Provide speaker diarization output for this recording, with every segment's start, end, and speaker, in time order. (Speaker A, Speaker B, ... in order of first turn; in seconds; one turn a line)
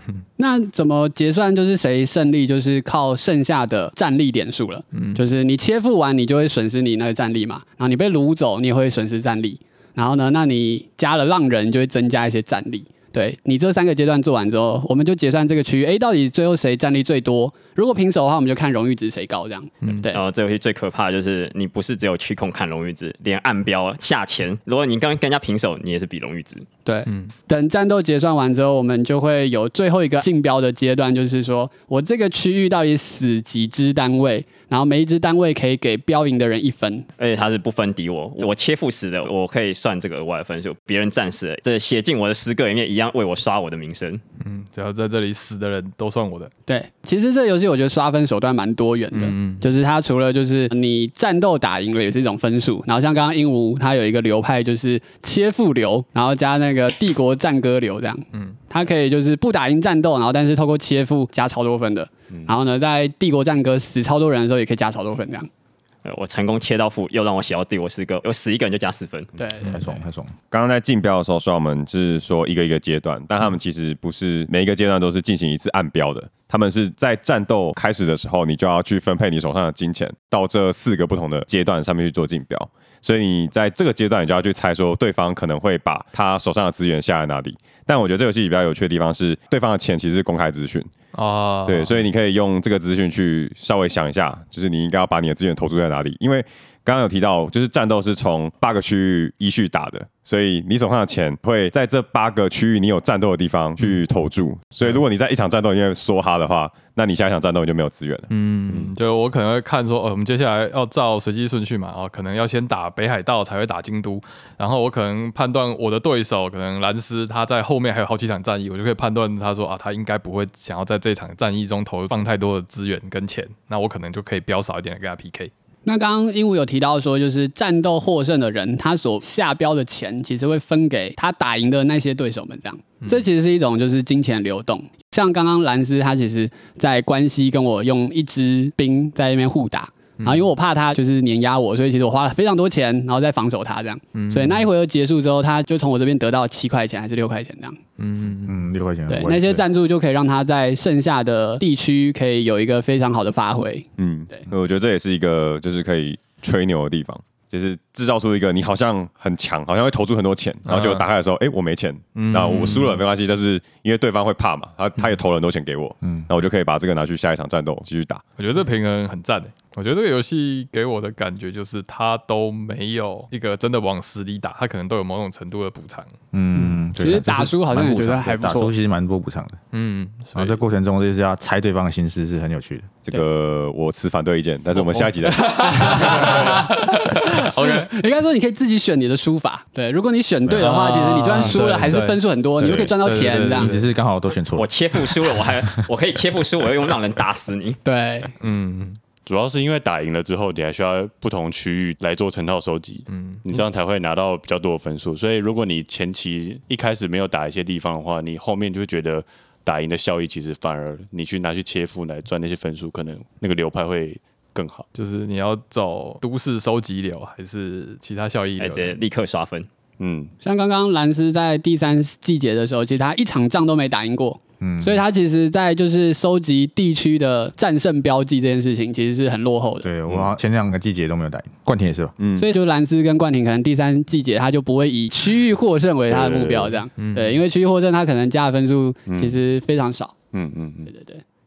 Speaker A: 0.4-20.2
Speaker B: 4.9-5.2
Speaker C: 20.1-26.7
Speaker A: 26.9-37.1
Speaker C: 37.2-44.2
Speaker B: 44.4-46.5
Speaker A: 46.7-65.5
Speaker B: 49.1-49.7
Speaker C: 66.0-69.3
Speaker A: 69.4-70.0
Speaker D: 69.6-70.3
Speaker E: 70.5-90.9
Speaker B: 91.1-92.1
Speaker E: 91.7-108.3
Speaker B: 108.3-125.5
Speaker A: 125.8-147.8
Speaker B: 140.2-140.4
Speaker B: 144.1-144.7
Speaker B: 148.0-148.6
Speaker D: 148.4-149.6
Speaker A: 149.1-154.4
Speaker E: 154.0-168.2
Speaker B: 160.7-161.0
Speaker B: 162.2-163.0
Speaker B: 168.4-176.1
Speaker D: 176.3-179.6
Speaker A: 176.6-178.7
Speaker B: 179.7-180.6
Speaker D: 180.3-182.9
Speaker E: 183.0-185.5
Speaker B: 185.0-187.9
Speaker A: 185.4-193.7
Speaker D: 190.4-190.9
Speaker B: 190.6-193.8
Speaker D: 193.5-195.4
Speaker C: 194.5-197.8
Speaker A: 197.8-198.3
Speaker B: 198.4-199.0
Speaker F: 199.2-214.8
Speaker B: 203.1-203.4
Speaker B: 214.9-219.0
Speaker C: 218.6-219.7
Speaker F: 220.0-220.3
Speaker A: 220.4-229.9
Speaker D: 224.6-225.0
Speaker D: 229.8-232.1
Speaker E: 232.2-232.5
Speaker A: 232.4-240.2
Speaker F: 236.1-236.8
Speaker B: 237.0-237.4
Speaker F: 239.1-239.4
Speaker F: 240.3-240.9
Speaker A: 240.9-241.2